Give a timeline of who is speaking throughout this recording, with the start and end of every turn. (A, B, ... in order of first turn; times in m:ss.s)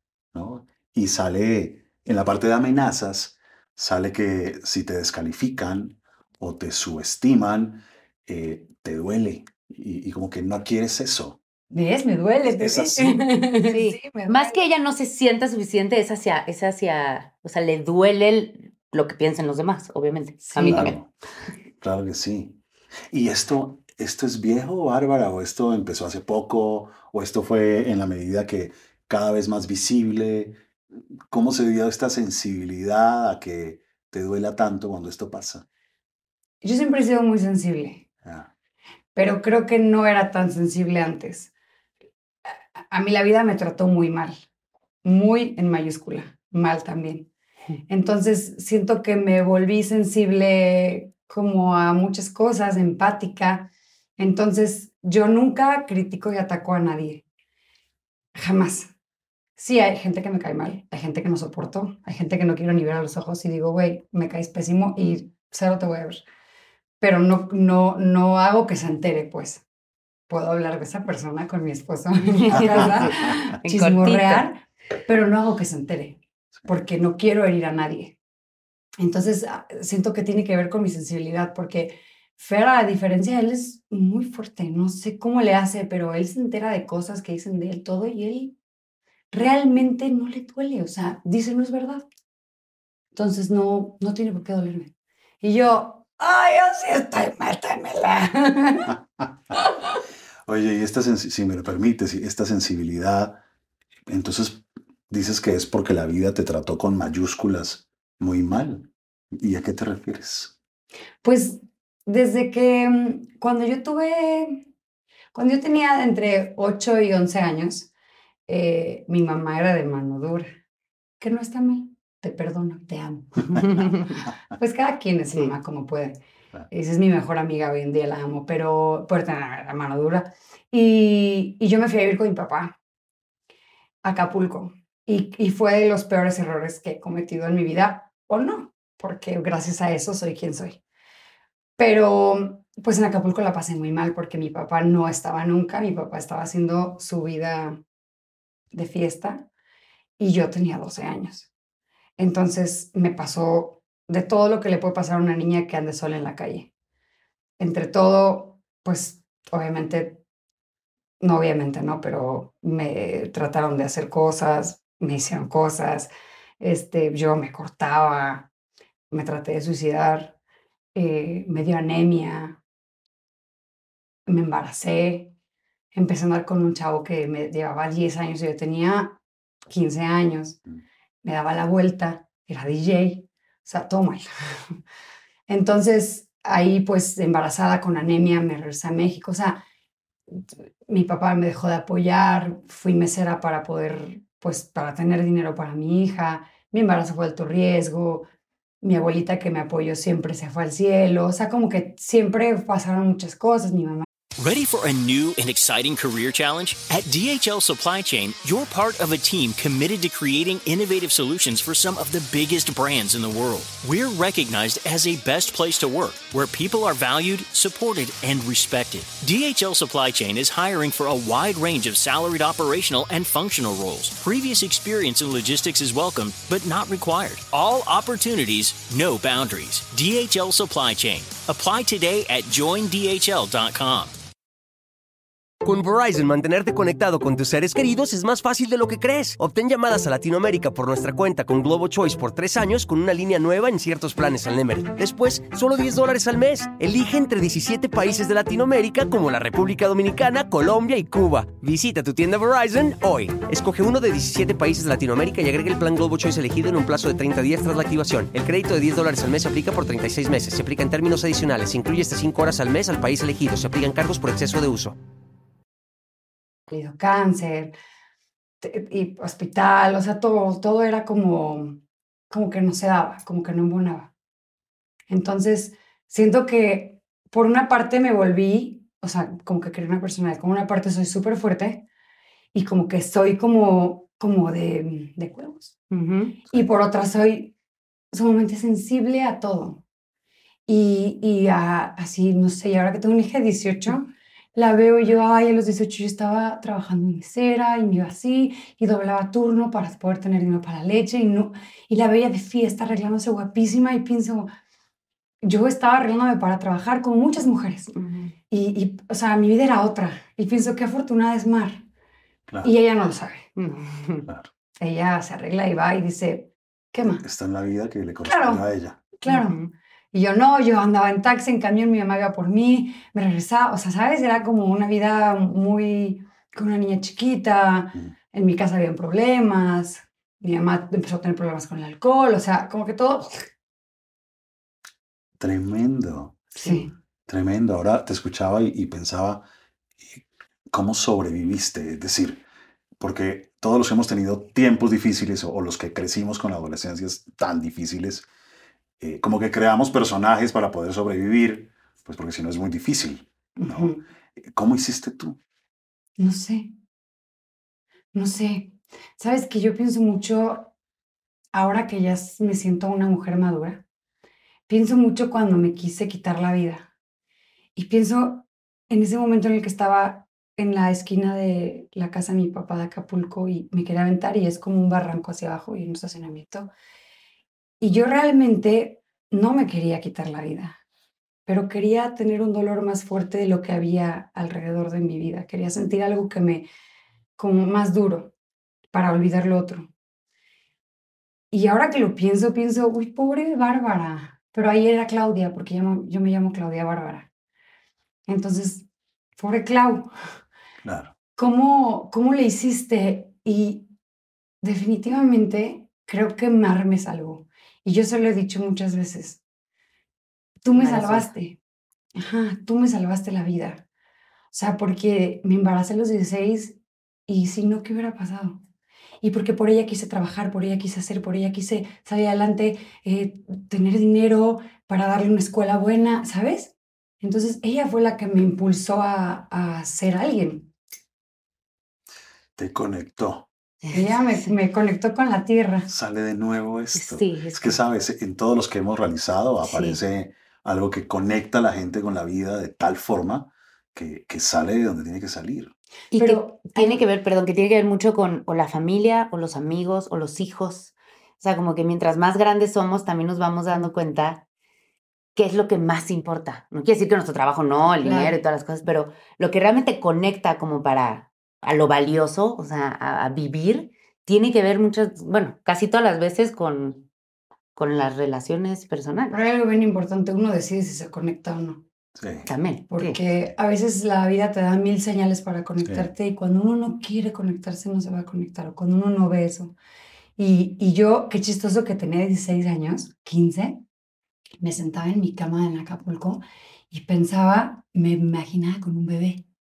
0:00.3-0:11.4 A
0:11.7-0:14.6 B
0:12.5-0:13.3 A
0:13.7-0:21.0 C
0:20.4-0:20.9 B
0:20.6-0:21.1 A
0:21.8-0:22.6 A
0:23.1-0:30.6 A
0:31.3-0:35.6 A
0:36.6-0:38.0 B
0:38.2-0:38.5 A
0:39.2-0:41.5 B
0:42.9-0:44.4 B
0:45.0-0:47.3 B
0:47.9-0:57.2 B
0:58.4-0:58.9 B
0:59.6-1:06.2 B
1:07.0-1:09.6 B
1:10.3-1:18.2 B
1:12.4-1:14.5 C
1:12.5-1:13.3 A
1:19.0-1:28.6 B
1:29.3-1:32.1 B
1:33.1-1:38.9 B
1:40.5-1:43.4 A
1:44.1-1:50.6 A
1:51.2-1:54.7 B
1:55.3-1:57.9 B
1:58.5-2:00.5 B
2:01.2-2:03.7 B
2:03.5-2:04.0 C
2:04.6-2:06.2 B
2:06.7-2:12.8 B
2:14.0-2:20.8 B
2:21.8-2:27.8 B
2:28.7-2:29.5 B
2:30.2-2:31.5 B
2:32.2-2:36.7 B
2:37.6-2:40.2 B
2:41.2-2:48.5 B
2:49.1-2:50.4 B
2:51.0-2:52.6 B
2:54.3-2:55.3 B
2:55.9-3:00.6 B
3:01.2-3:04.8 B
3:05.5-3:09.6 B
3:10.3-3:18.3 B
3:18.8-3:24.1 B
3:24.4-3:54.2 D
3:55.6-4:25.0 E
4:26.7-4:27.7 B
4:28.6-4:31.8 B
4:32.3-4:34.1 B
4:35.1-4:41.8 B
4:42.5-4:45.8 B
4:45.9-4:46.4 C
4:46.5-4:47.5 B
4:48.1-4:49.8 B
4:50.7-5:04.5 B
5:05.4-5:07.9 B
5:08.0-5:08.3 C
5:08.5-5:11.8 B
5:12.6-5:13.5 B
5:13.6-5:14.3 C
5:14.8-5:17.2 B
5:17.2-5:19.0 A
5:18.3-5:19.6 B
5:19.3-5:19.7 C
5:20.1-5:33.4 B
5:35.4-5:36.6 A
5:36.6-5:36.9 B
5:37.3-5:39.5 A
5:40.1-5:42.4 A
5:43.0-5:48.3 A
5:49.0-5:55.4 A
5:53.6-5:54.0 B
5:56.2-5:56.7 B
5:58.1-6:00.7 B
6:01.5-6:03.8 B
6:04.7-6:06.9 B
6:07.8-6:16.7 B
6:17.8-6:20.8 B
6:21.5-6:26.7 B
6:27.4-6:28.3 B
6:28.9-6:29.9 B
6:31.5-6:37.3 B
6:38.3-6:40.1 B
6:40.8-6:41.1 A
6:41.4-6:43.9 B
6:44.6-6:49.4 B
6:50.6-6:51.6 B
6:50.8-6:51.3 C
6:52.2-6:53.8 B
6:54.5-6:58.6 B
6:59.2-7:10.7 B
7:12.6-7:13.5 A
7:13.8-7:14.5 C
7:13.9-7:15.9 B
7:15.9-7:25.7 A
7:17.0-7:17.8 C
7:19.6-7:20.0 C
7:26.1-7:34.4 C
7:26.1-7:27.0 B
7:35.4-7:47.1 C
7:38.0-7:38.4 B
7:47.8-7:49.3 C
7:49.3-7:51.8 B
7:52.2-7:52.5 A
7:52.5-7:53.2 C
7:52.9-7:59.8 B
7:55.8-7:56.1 A
8:00.4-8:03.8 B
8:04.6-8:09.4 B